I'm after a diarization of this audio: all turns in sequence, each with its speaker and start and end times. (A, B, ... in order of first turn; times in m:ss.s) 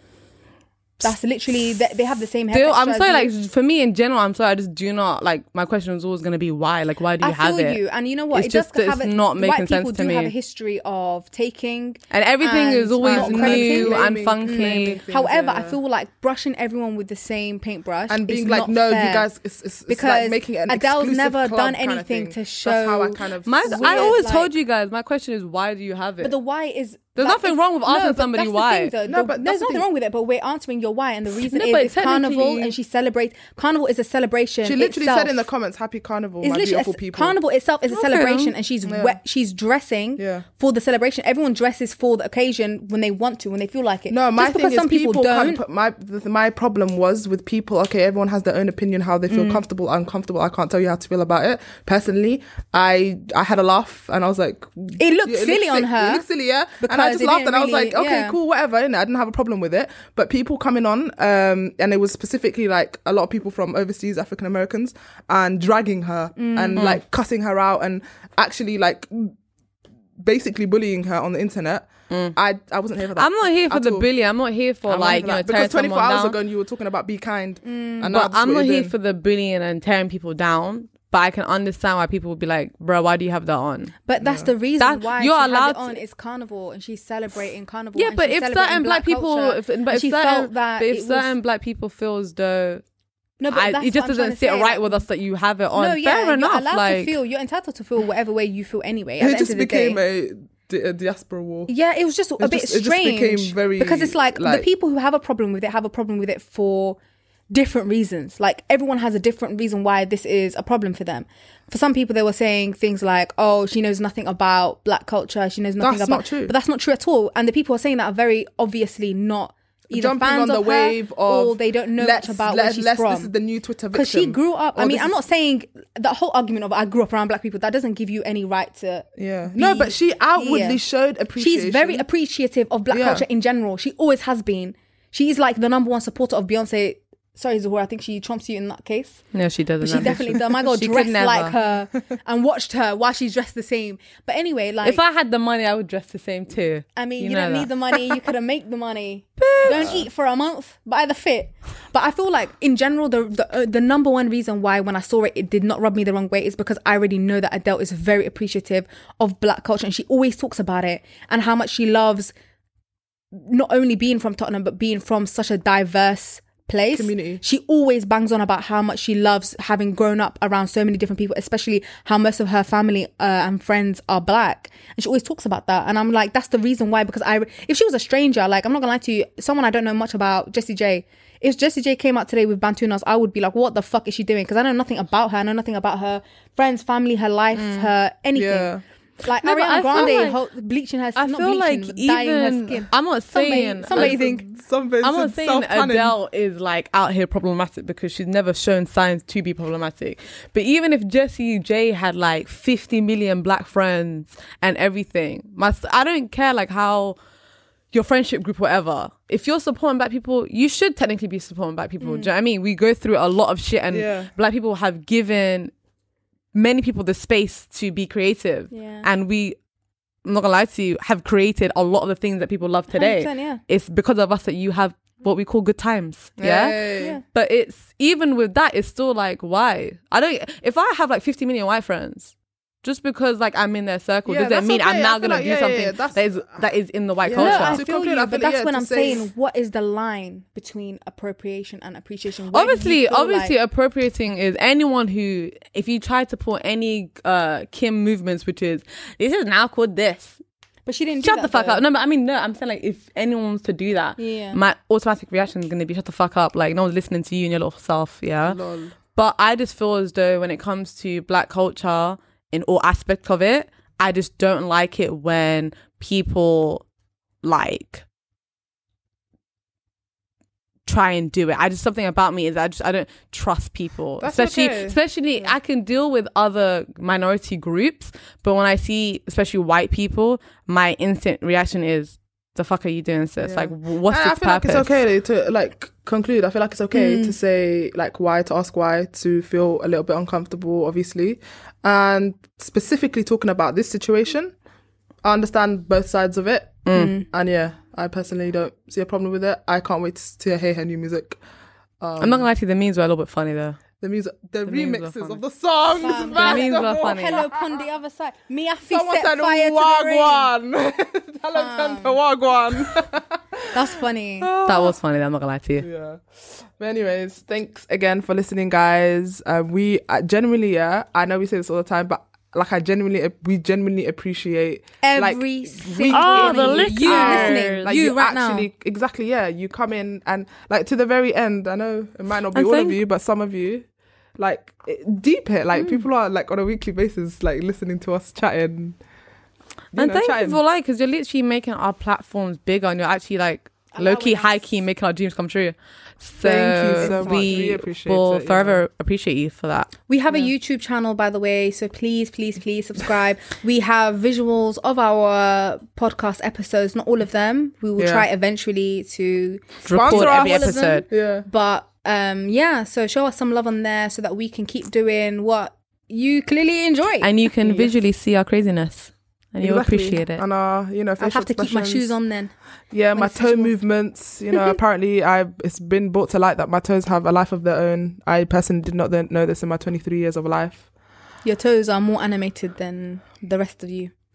0:01.0-0:03.3 A
0:02.5-0:07.8 B
0:07.2-0:19.3 A
0:08.3-0:10.3 B
0:12.1-0:15.0 B
0:13.0-0:15.8 C
0:18.1-0:24.2 C
0:19.9-0:24.5 A
0:23.4-0:26.3 B
0:26.2-0:35.4 A
0:27.2-0:28.9 B
0:29.0-0:29.8 C
0:31.4-0:32.7 B
0:34.6-0:37.4 C
0:36.4-0:45.6 A
0:37.9-0:38.5 B
0:38.8-0:39.2 C
0:40.2-0:40.4 C
0:44.1-1:09.3 C
0:49.3-0:49.6 A
0:55.0-0:56.2 A
0:56.8-0:58.4 A
1:06.4-1:06.9 A
1:06.8-1:07.0 B
1:10.2-1:14.1 C
1:12.1-1:12.4 B
1:13.1-1:16.4 B
1:14.9-1:18.9 C
1:17.6-1:18.1 A
1:18.0-1:24.0 B
1:24.0-1:31.3 A
1:24.2-1:24.5 C
1:24.8-1:26.0 B
1:28.0-1:32.8 B
1:33.4-1:35.0 A
1:33.5-1:37.2 B
1:35.7-1:40.0 A
1:39.2-1:41.7 C
1:41.7-1:47.0 A
1:42.4-1:44.7 C
1:47.5-2:03.3 A
1:55.8-1:56.5 C
1:59.9-2:05.1 C
2:03.9-2:10.8 A
2:09.2-2:12.0 C
2:11.4-2:19.2 A
2:12.9-2:13.2 C
2:19.3-2:21.5 B
2:19.8-2:25.0 A
2:19.9-2:20.4 C
2:24.8-2:28.2 B
2:27.0-2:42.3 A
2:29.4-2:30.0 B
2:29.6-2:30.0 C
2:43.3-3:08.7 A
2:46.9-2:47.4 C
3:07.5-3:07.9 B
3:08.3-3:08.8 C
3:09.2-3:14.4 A
3:09.4-3:10.4 B
3:11.2-3:14.2 B
3:13.9-3:16.2 C
3:15.0-3:27.2 B
3:27.9-3:35.7 B
3:32.0-3:32.3 A
3:33.9-3:34.3 C
3:36.5-3:39.6 B
3:38.7-3:39.1 A
3:40.2-3:57.8 B
3:42.9-3:43.6 A
3:46.4-3:47.2 C
3:54.2-3:56.3 C
3:57.2-3:59.2 C
3:57.4-4:03.5 A
4:02.5-4:10.4 B
4:10.8-4:11.8 A
4:11.2-4:18.6 B
4:14.2-4:14.6 A
4:18.4-4:18.9 C
4:19.1-4:26.8 B
4:27.4-4:28.0 B
4:30.8-4:44.9 B
4:34.2-4:35.5 C
4:43.4-4:54.5 C
4:46.9-4:47.3 A
4:55.2-5:01.4 C
4:56.8-4:57.2 B
4:56.9-4:57.2 A
5:02.0-5:02.5 C
5:02.2-5:03.8 B
5:04.0-5:07.6 C
5:04.6-5:05.4 B
5:06.0-5:10.5 A
5:06.2-5:07.4 B
5:08.9-5:13.7 C
5:11.5-5:12.2 A
5:13.7-5:14.5 A
5:14.4-5:15.0 C
5:14.6-5:15.9 B
5:15.8-5:33.8 C
5:25.0-5:28.7 A
5:26.1-5:28.2 B
5:32.5-5:33.0 B
5:34.4-5:39.0 C
5:35.8-5:36.0 A
5:39.9-5:40.6 C
5:39.9-5:50.4 B
5:43.9-5:44.7 A
5:46.4-5:48.8 C
5:47.0-5:47.5 A
5:50.1-6:07.3 A
5:58.0-5:58.2 C
5:59.8-6:01.0 B
5:59.9-6:01.4 C
6:07.2-6:10.4 B
6:07.6-6:07.9 C
6:09.6-6:12.2 C
6:11.2-6:12.5 A
6:12.9-6:20.8 C
6:13.1-6:13.8 A
6:21.4-6:24.1 A